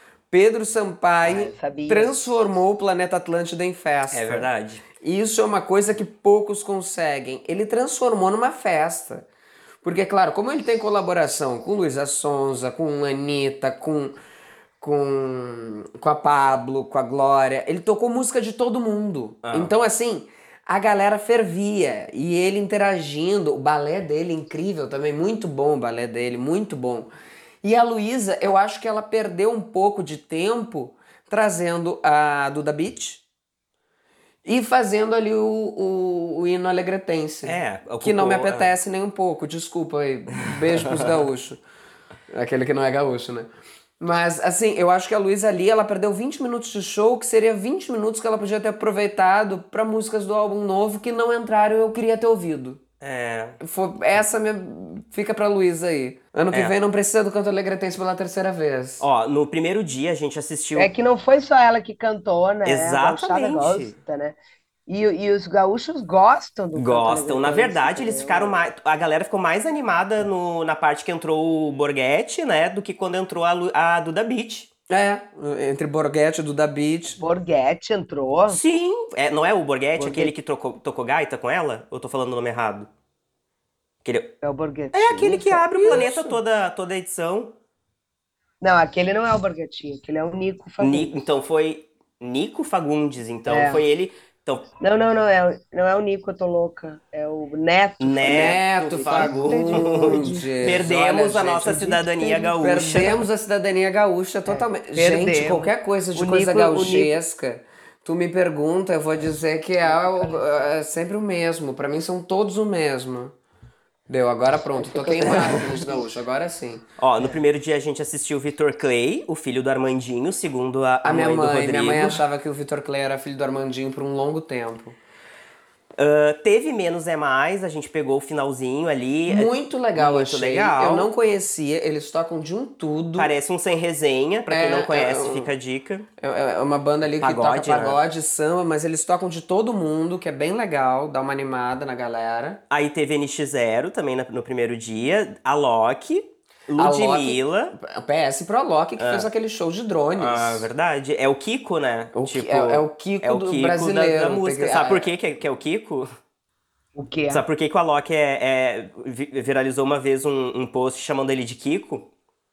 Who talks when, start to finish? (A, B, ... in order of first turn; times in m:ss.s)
0:00.3-0:04.5 A
0:01.2-0:02.2 B
0:04.1-0:04.8 C
0:05.0-0:09.3 A
0:09.8-0:14.2 A
0:14.8-0:27.1 A
0:19.4-0:19.7 C
0:27.6-0:33.2 A
0:34.4-0:41.6 A
0:37.4-0:38.7 C
0:40.4-0:41.1 C
0:42.3-0:52.8 A
0:53.0-0:53.6 C
0:53.6-0:59.0 A
0:59.0-1:00.9 C
1:00.8-1:08.6 B
1:02.6-1:04.0 C
1:06.8-1:14.7 C
1:14.9-1:17.2 A
1:17.2-1:18.6 B
1:18.5-1:22.9 C
1:20.0-1:20.3 B
1:24.0-1:24.3 C
1:24.4-1:26.4 B
1:24.9-1:27.5 C
1:28.6-1:31.2 B
1:30.8-1:34.7 C
1:33.5-1:33.8 B
1:34.8-1:40.5 B
1:38.0-1:43.3 C
1:38.2-1:53.3 A
1:42.2-1:42.5 B
1:44.5-1:47.2 B
1:49.8-1:50.7 B
1:54.1-1:56.8 A
1:54.8-1:56.0 B
1:57.0-2:02.2 C
2:01.0-2:05.0 A
2:06.0-2:11.1 C
2:09.3-2:13.3 A
2:13.2-2:16.1 C
2:14.5-2:15.5 A
2:16.2-2:22.6 A
2:17.2-2:18.0 C
2:22.7-2:27.8 C
2:26.8-2:30.7 A
2:29.0-2:29.3 C
2:30.2-2:36.1 C
2:32.1-2:35.1 A
2:37.0-2:37.4 B
2:37.3-2:42.1 C